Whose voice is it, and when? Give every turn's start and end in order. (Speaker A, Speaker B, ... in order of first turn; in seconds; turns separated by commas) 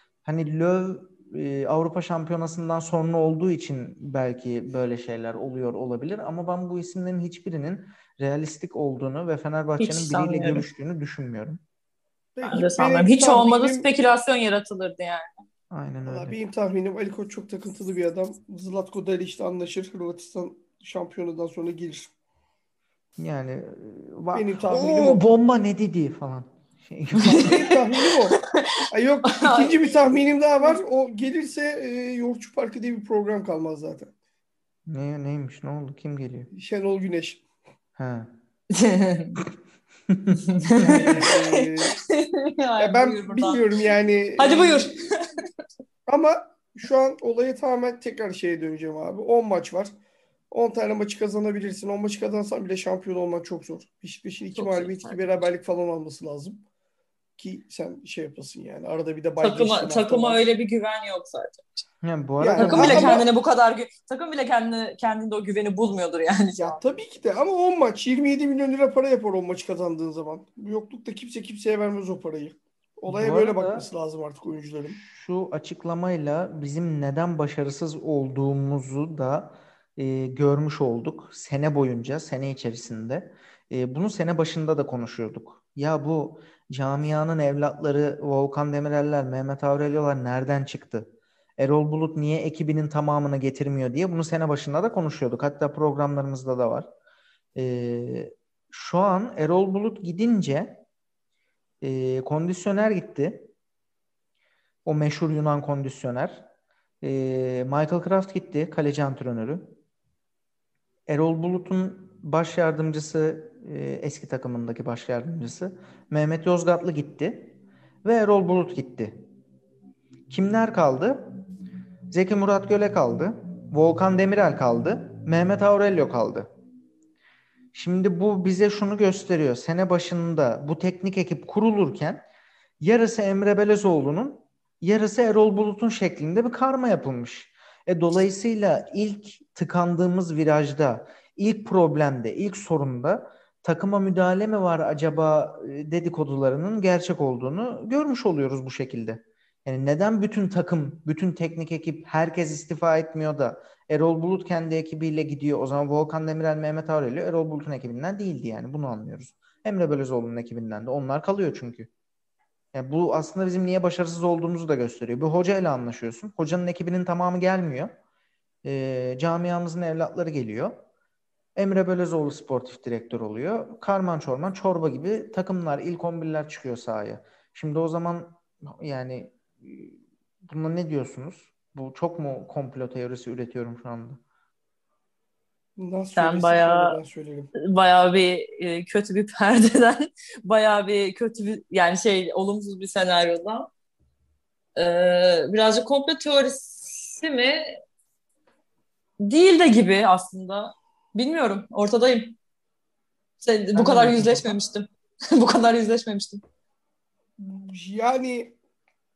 Speaker A: 0.2-11.6, Speaker B: 9.8-10.7, Speaker C: 12.3-13.8, Speaker B: 12.4-15.3, Speaker A: 15.7-16.4, Speaker C: 16.1-22.1, Speaker A: 23.2-27.6, Speaker C: 24.3-25.2, Speaker C: 27.2-28.4, Speaker B: 27.2-27.8, Speaker C: 28.9-34.1, Speaker B: 29.3-29.8, Speaker A: 34.9-36.5, Speaker C: 36.5-37.4, Speaker A: 38.0-38.3, Speaker B: 38.7-39.4, Speaker A: 40.1-41.2, Speaker B: 40.5-43.7, Speaker C: 40.8-42.0, Speaker C: 42.8-45.1, Speaker B: 44.4-45.3, Speaker C: 46.1-49.9, Speaker C: 50.5-56.6, Speaker B: 54.6-55.4, Speaker C: 57.4-60.4, Speaker B: 59.4-61.8, Speaker A: 62.0-63.2, Speaker C: 62.4-63.3, Speaker B: 62.6-66.8, Speaker C: 66.6-75.0, Speaker A: 73.1-73.8, Speaker A: 74.9-96.9, Speaker A: 97.5-100.8, Speaker A: 101.8-103.5, Speaker A: 104.8-106.5, Speaker A: 107.0-109.7, Speaker A: 111.1-119.2, Speaker A: 120.3-121.3, Speaker A: 122.1-126.5, Speaker A: 127.7-132.2, Speaker A: 132.8-161.9, Speaker A: 162.7-167.9, Speaker A: 168.6-170.7, Speaker A: 171.6-184.2, Speaker C: 185.8-187.5, Speaker B: 186.2-187.0, Speaker B: 187.6-193.7, Speaker B: 194.8-197.8, Speaker B: 199.2-202.3, Speaker B: 203.4-206.4, Speaker A: 203.8-204.3, Speaker C: 203.8-204.5, Speaker C: 207.4-208.5